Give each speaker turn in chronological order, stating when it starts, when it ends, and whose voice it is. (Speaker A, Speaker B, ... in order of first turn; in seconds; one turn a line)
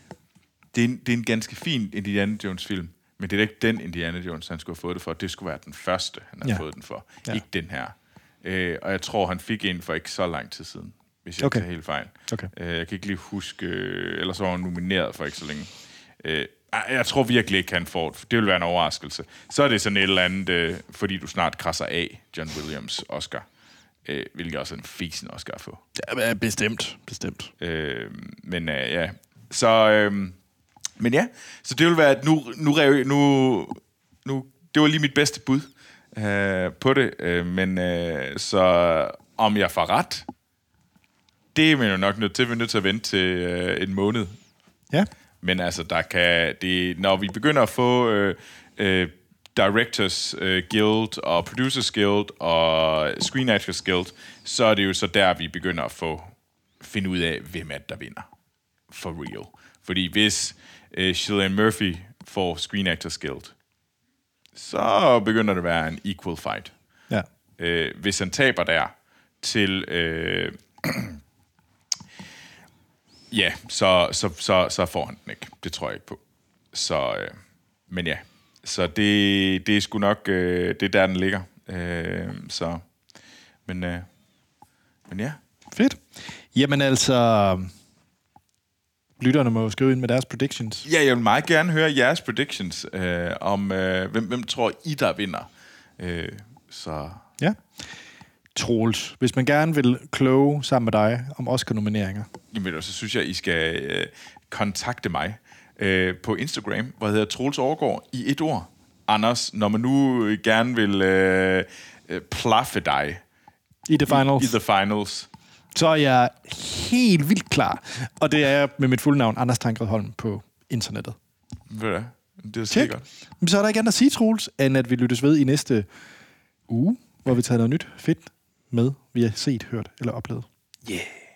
Speaker A: 0.7-23.4
Speaker B: 11.4-11.6
Speaker A: 24.1-25.8
Speaker B: 25.9-27.5
Speaker A: 27.6-30.4
Speaker A: 31.0-40.3
Speaker A: 41.5-44.3
Speaker A: 45.4-58.3
Speaker A: 58.9-63.5
Speaker A: 64.5-66.7
Speaker A: 67.6-71.2
Speaker A: 73.3-76.2
Speaker A: 76.7-77.3
Speaker A: 77.9-82.8
Speaker A: 83.7-84.0
Speaker A: 85.1-85.4
Speaker B: 85.7-86.0
Speaker B: 86.5-87.7
Speaker B: 89.2-90.8
Speaker A: 90.8-97.2
Speaker B: 98.5-102.3
Speaker A: 102.5-113.2
Speaker B: 113.9-114.5
Speaker A: 114.1-115.3
Speaker B: 115.7-121.2
Speaker A: 121.7-123.0
Speaker B: 122.7-125.9
Speaker B: 126.7-130.5
Speaker A: 130.8-131.1